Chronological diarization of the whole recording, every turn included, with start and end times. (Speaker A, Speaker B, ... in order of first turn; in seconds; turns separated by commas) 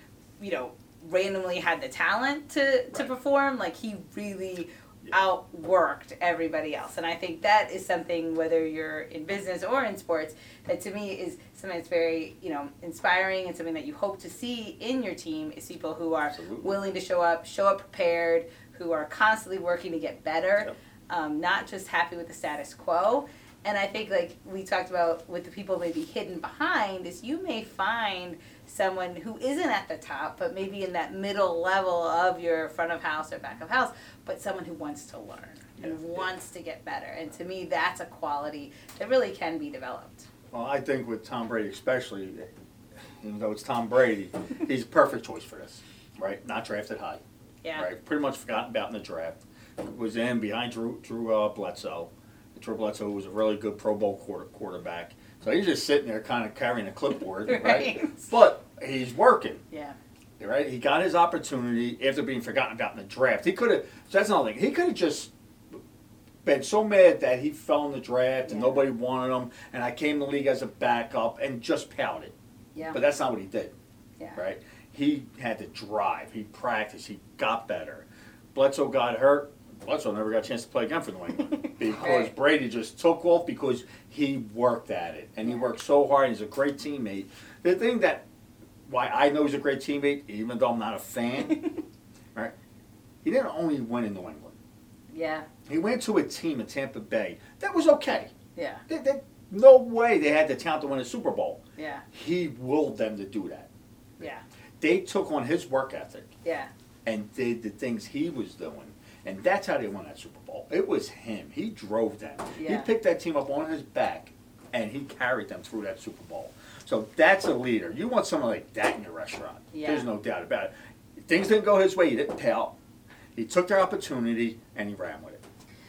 Speaker A: 0.4-40.3, Speaker B: 16.3-16.7, Speaker B: 35.8-36.3, Speaker B: 40.5-42.5, Speaker B: 43.2-47.2, Speaker B: 47.8-59.6, Speaker A: 57.5-58.2, Speaker A: 59.7-60.0, Speaker B: 60.4-65.3, Speaker B: 66.4-72.3, Speaker A: 68.4-68.8, Speaker B: 72.9-73.7, Speaker B: 74.3-88.2, Speaker A: 81.5-82.3, Speaker B: 88.9-91.6, Speaker A: 91.5-91.8, Speaker B: 93.2-94.5, Speaker A: 95.1-95.5, Speaker B: 95.7-98.3, Speaker A: 98.5-98.8, Speaker B: 98.9-101.6, Speaker A: 101.8-102.0, Speaker B: 102.1-104.2, Speaker B: 104.8-106.3, Speaker A: 106.4-106.7, Speaker B: 107.0-120.7, Speaker A: 112.5-112.9, Speaker A: 119.7-120.1, Speaker B: 121.2-122.7, Speaker B: 123.3-125.4